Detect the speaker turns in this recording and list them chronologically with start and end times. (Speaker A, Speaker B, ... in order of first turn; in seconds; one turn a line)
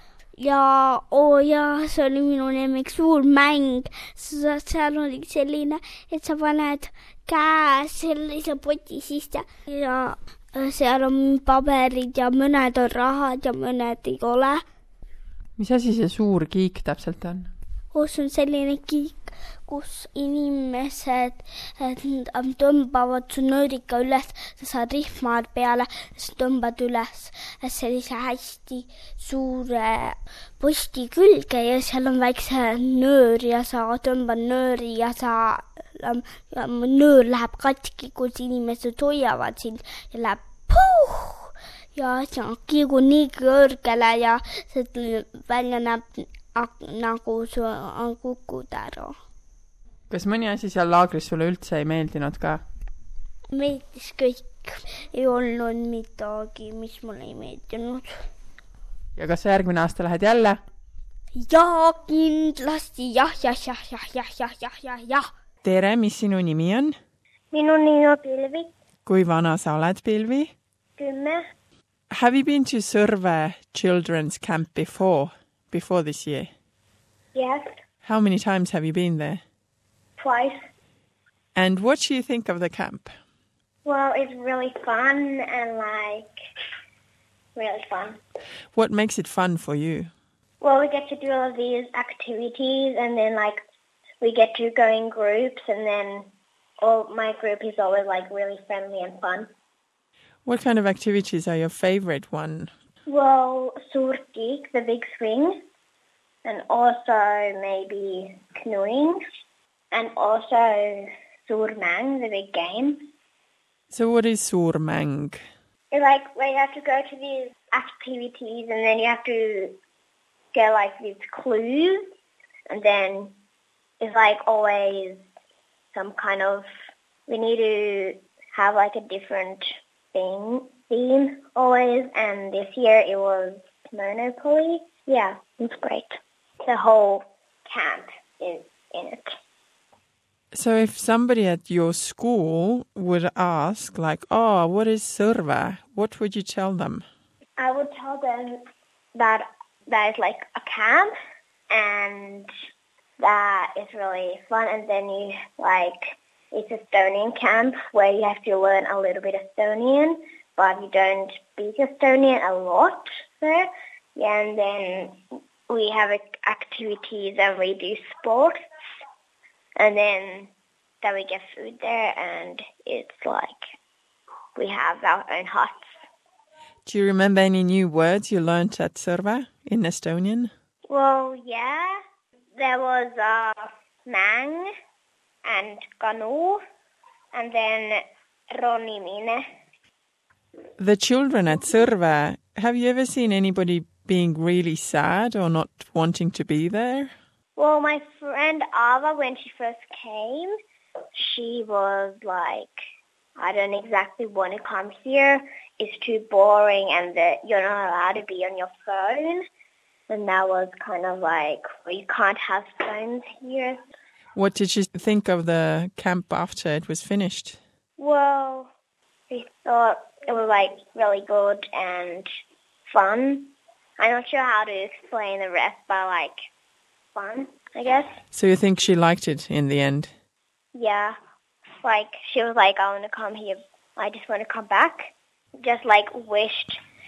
Speaker A: 0.4-14.6
Speaker B: 15.6-17.5
Speaker A: 17.9-19.1
Speaker A: 19.6-49.1
Speaker B: 50.1-52.6
Speaker A: 53.5-58.1
Speaker B: 59.2-60.6
Speaker A: 61.3-65.2
Speaker B: 65.6-67.0
Speaker C: 67.5-68.7
Speaker B: 69.0-70.5
Speaker C: 71.0-71.4
Speaker B: 72.1-76.5
Speaker C: 77.3-77.6
Speaker B: 78.0-79.4
Speaker C: 80.2-80.6
Speaker B: 81.5-83.1
Speaker C: 83.8-86.3
Speaker C: 87.5-88.2
Speaker B: 88.7-90.1
Speaker C: 90.6-93.6
Speaker C: 94.2-96.3
Speaker C: 96.8-99.5
Speaker B: 100.5-102.7
Speaker C: 103.1-105.6
Speaker C: 106.4-109.2
Speaker C: 109.9-113.0
Speaker B: 113.9-115.4
Speaker C: 115.9-119.7
Speaker C: 120.5-122.0
Speaker C: 122.7-123.3
Speaker C: 124.0-125.2
Speaker C: 125.9-126.7
Speaker C: 127.3-139.3
Speaker B: 140.5-147.0
Speaker C: 147.6-148.6
Speaker C: 149.1-151.1
Speaker C: 151.7-152.5
Speaker C: 153.2-165.2
Speaker C: 165.7-168.6
Speaker C: 169.8-170.5
Speaker C: 171.0-173.5
Speaker C: 174.5-175.9
Speaker B: 176.8-180.5
Speaker C: 180.9-181.9
Speaker C: 182.6-184.7
Speaker C: 185.4-186.6
Speaker C: 187.3-189.4
Speaker B: 190.8-197.1
Speaker C: 197.6-200.5
Speaker C: 201.1-202.8
Speaker C: 203.4-209.4
Speaker C: 210.1-213.8
Speaker B: 214.3-217.6
Speaker C: 218.0-218.4
Speaker C: 219.3-222.3
Speaker C: 222.9-226.3
Speaker C: 227.1-228.2
Speaker B: 228.3-230.1
Speaker C: 230.7-231.1
Speaker C: 231.8-236.8